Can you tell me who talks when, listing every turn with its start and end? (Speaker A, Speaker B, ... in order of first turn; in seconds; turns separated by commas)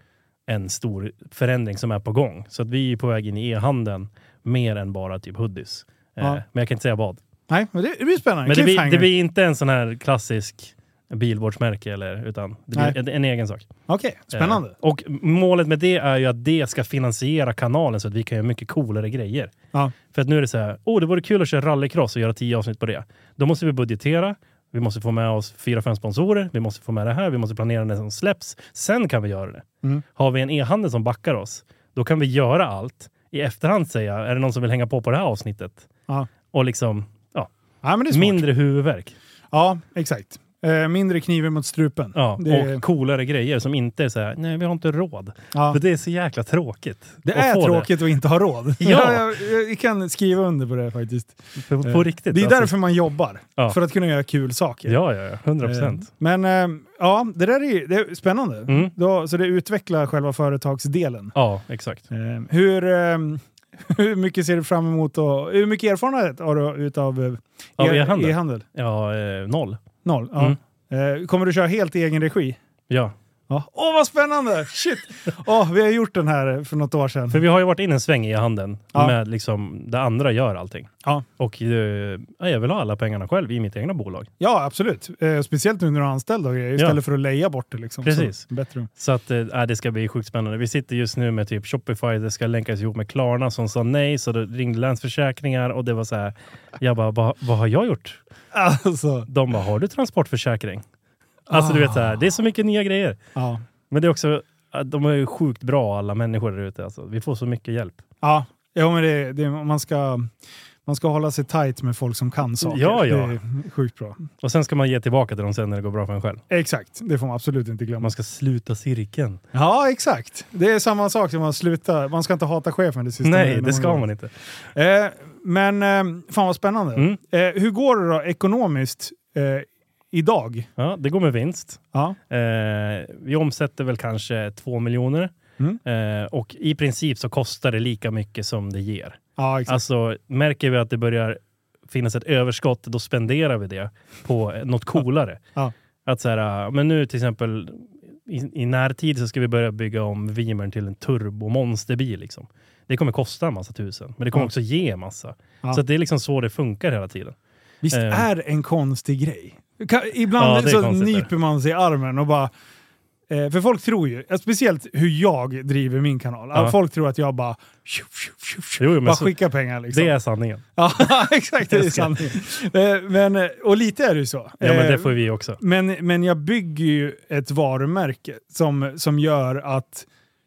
Speaker A: 0.5-7.2, Speaker B: 7.5-9.1, Speaker A: 8.4-13.7, Speaker B: 13.9-14.7, Speaker A: 14.3-19.5, Speaker A: 20.1-35.9, Speaker A: 36.5-37.5, Speaker B: 37.8-38.4, Speaker A: 38.1-39.1, Speaker B: 39.5-42.8, Speaker A: 42.1-47.9, Speaker B: 45.5-45.8, Speaker B: 47.2-55.0, Speaker A: 48.8-49.3, Speaker A: 51.5-52.7, Speaker A: 54.9-56.1, Speaker B: 55.6-61.3, Speaker A: 61.3-62.0, Speaker B: 62.1-68.6, Speaker A: 67.8-69.8, Speaker B: 70.0-72.6, Speaker B: 73.5-77.4, Speaker A: 77.3-84.3, Speaker B: 84.4-88.9, Speaker A: 88.0-88.4, Speaker A: 89.0-98.2, Speaker B: 98.5-99.3, Speaker A: 99.3-100.8, Speaker B: 101.5-102.2, Speaker A: 101.5-103.2, Speaker B: 103.3-103.6, Speaker A: 103.9-108.0, Speaker B: 108.2-110.3, Speaker B: 110.8-114.3, Speaker A: 112.6-113.4, Speaker A: 114.4-116.4, Speaker B: 116.5-118.1, Speaker A: 118.0-119.4, Speaker B: 119.5-124.0, Speaker A: 123.2-124.3, Speaker B: 124.7-130.7, Speaker A: 130.8-145.4, Speaker B: 139.4-139.8, Speaker A: 146.0-157.3, Speaker B: 157.8-162.5, Speaker A: 157.9-158.2, Speaker A: 160.4-161.3, Speaker B: 163.3-170.1, Speaker A: 168.8-169.3, Speaker A: 169.9-170.6, Speaker B: 170.8-180.1, Speaker A: 171.7-172.3, Speaker A: 174.6-175.6